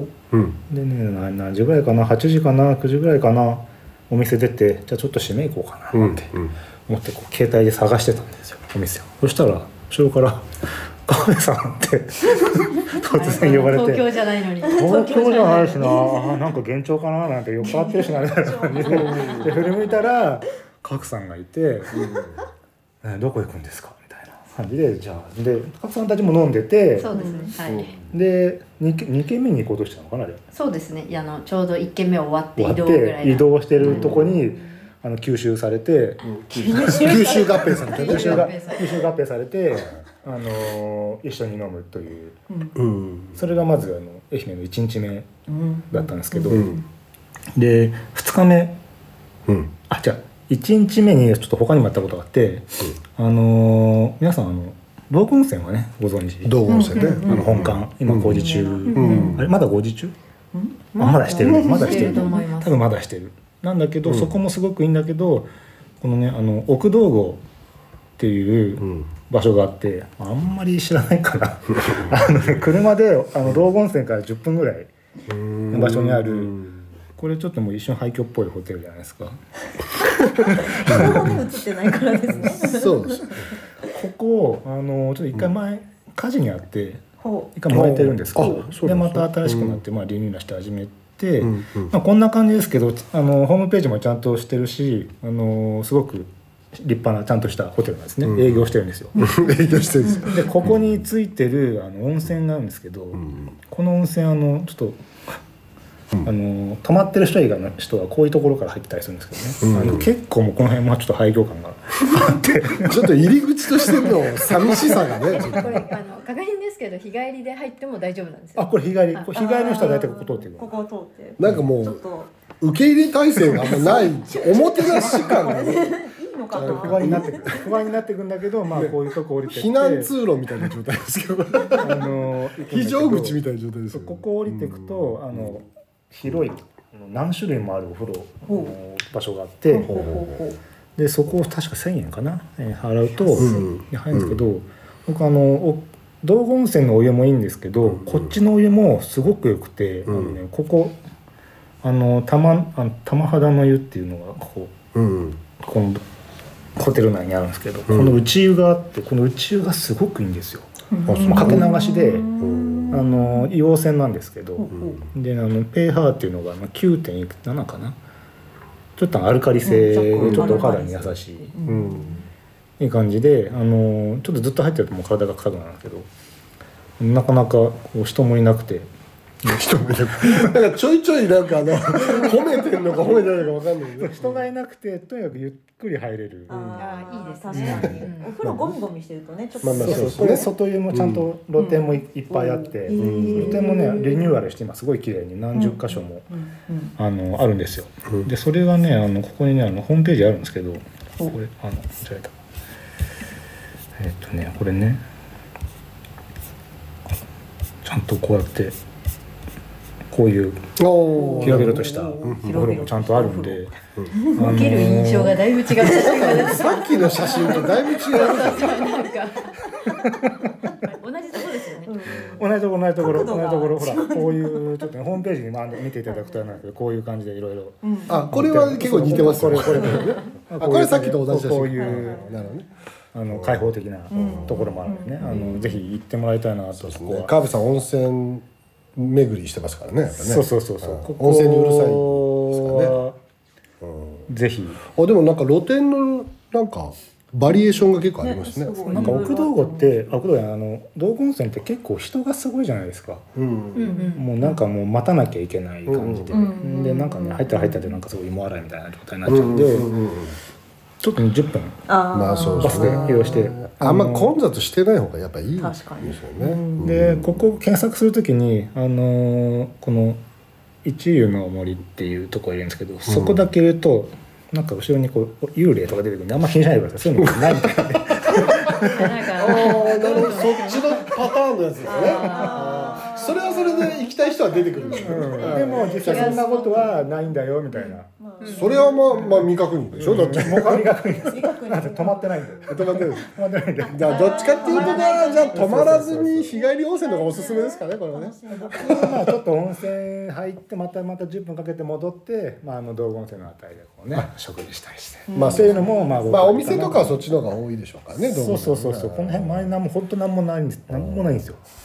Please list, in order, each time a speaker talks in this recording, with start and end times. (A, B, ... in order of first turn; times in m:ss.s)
0:00.3-0:00.6 A
0:00.7-0:14.1 B
0:05.9-0:06.5 A
0:13.1-0:16.1 C
0:14.6-0:22.0 B
0:14.7-0:16.4 D
0:17.6-0:20.1 D
0:18.9-0:19.4 C
0:19.1-0:19.5 A
0:21.9-0:22.4 A
0:21.9-0:22.2 D
0:23.0-0:27.1 B
0:27.0-0:27.9 C
0:27.1-0:27.5 D
0:27.6-0:28.1 A
0:28.1-0:30.4 B
0:30.5-0:34.1 C
0:32.6-0:42.4 B
0:33.8-0:34.4 A
0:34.1-0:34.8 D
0:36.2-0:38.5 A
0:36.6-0:37.9 D
0:36.9-0:39.0 C
0:42.5-0:42.8 D
0:42.7-0:43.4 A
0:43.3-0:45.3 B
0:45.5-0:46.8 D
0:45.9-0:46.8 B
0:46.5-0:46.8 A
0:47.6-0:48.8 B
0:49.5-0:49.7 A
0:49.9-1:00.1 B
0:56.4-0:59.5 A
0:56.7-0:57.7 D
0:58.3-0:59.5 D
1:00.5-1:02.4 D
1:00.9-1:05.5 B
1:00.9-1:02.8 C
1:04.0-1:04.3 A
1:06.0-1:07.4 B
1:08.2-1:14.9 B
1:15.3-1:16.8 A
1:15.7-1:16.6 B
1:17.2-1:21.4 B
1:20.4-1:23.4 D
1:20.9-1:21.4 A
1:22.5-1:23.4 A
1:23.8-1:27.0 B
1:27.2-1:27.5 D
1:27.5-1:39.3 B
1:27.7-1:29.8 A
1:31.4-1:31.9 A
1:38.2-1:40.9 A
1:39.1-1:40.4 D
1:40.3-1:45.0 B
1:43.1-1:43.5 A
1:46.2-1:53.2 B
1:49.6-1:50.1 A
1:52.8-1:55.8 A
1:53.7-1:55.7 B
1:55.2-1:59.9 C
1:58.6-2:00.7 B
1:59.3-2:02.3 D
2:01.4-2:02.0 A
2:02.6-2:06.0 A
2:03.5-2:07.6 D
2:05.0-2:05.8 B
2:06.5-2:07.6 A
2:06.5-2:10.1 B
2:08.7-2:15.6 A
2:11.6-2:12.1 D
2:11.8-2:13.4 B
2:13.9-2:20.0 B
2:18.5-2:18.8 D
2:19.7-2:20.6 D
2:19.8-2:20.4 A
2:21.0-2:31.0 B
2:23.2-2:23.7 D
2:23.4-2:24.4 A
2:27.8-2:28.3 A
2:30.0-2:30.4 A
2:31.8-2:34.8 B
2:34.9-2:35.4 A
2:35.5-2:36.0 B
2:36.8-2:40.7 B
2:37.9-2:38.2 A
2:40.9-2:43.5 D
2:41.0-2:41.7 A
2:41.2-2:42.3 B
2:42.4-2:43.0 A
2:42.9-2:48.0 B
2:44.6-2:45.0 D
2:44.7-2:45.0 A
2:49.0-2:51.5 B
2:49.6-2:52.2 D
2:50.2-2:50.6 A
2:51.6-2:52.2 A
2:52.8-2:56.1 B
2:57.0-2:58.9 B
2:59.4-3:00.6 B
2:59.4-3:04.4 A
3:01.9-3:03.4 D
3:01.9-3:02.3 B
3:04.0-3:06.6 B
3:06.5-3:06.8 A
3:06.5-3:10.4 D
3:06.8-3:08.3 C
3:07.5-3:08.8 B
3:07.6-3:08.0 A
3:09.6-3:11.2 A
3:09.6-3:16.3 B
3:11.6-3:14.4 D
3:13.0-3:13.6 A
3:15.5-3:16.9 D
3:17.0-3:22.4 B
3:24.0-3:25.0 B
3:27.8-3:28.8 B
3:30.1-3:30.7 B
3:30.8-3:32.7 A
3:31.1-3:34.9 D
3:31.4-3:36.4 B
3:34.3-3:40.0 C
3:35.8-3:40.1 D
3:35.8-3:38.8 A
3:40.8-3:41.9 C
3:41.8-3:44.9 D
3:42.1-3:42.4 A
3:42.4-3:52.3 B
3:43.0-3:43.3 A
3:46.0-3:46.6 D
3:47.8-3:48.3 D
3:48.1-3:52.6 A
3:48.8-3:50.3 D
3:51.7-3:52.4 D
3:53.1-3:57.3 B
3:53.3-3:54.7 A
3:54.1-3:55.8 D
3:56.8-3:58.4 A
3:59.0-4:03.0 A
4:00.1-4:03.2 B
4:03.8-4:04.3 A
4:04.3-4:04.8 B
4:04.9-4:09.3 A
4:07.5-4:10.2 D
4:08.9-4:13.3 B
4:13.4-4:14.0 A
4:13.7-4:14.2 C
4:13.9-4:14.5 D
4:14.1-4:19.9 B
4:15.9-4:16.4 A
4:16.3-4:17.9 D
4:19.3-4:20.4 A
4:21.0-4:21.8 B
4:21.9-4:23.5 D
4:22.1-4:27.3 A
4:22.6-4:24.3 B
4:25.6-4:27.0 D
4:26.8-4:30.2 B
4:30.8-4:39.2 B
4:33.0-4:33.4 A
4:37.2-4:38.7 A
4:38.6-4:41.3 C
4:39.3-4:46.6 A
4:41.8-4:49.5 D
4:41.9-4:43.2 C
4:44.8-4:47.0 C
4:45.1-4:48.1 B
4:48.4-4:49.2 C
4:48.5-4:50.9 A
4:49.9-4:56.5 B
4:50.6-4:53.2 D
4:52.7-4:53.3 A
4:53.8-4:55.6 C
4:53.9-4:59.2 A
4:54.0-4:59.2 D
4:58.7-5:07.2 B
5:05.3-5:07.2 D
5:05.3-5:09.7 A
5:05.7-5:06.1 C
5:08.2-5:11.6 B
5:11.0-5:11.3 A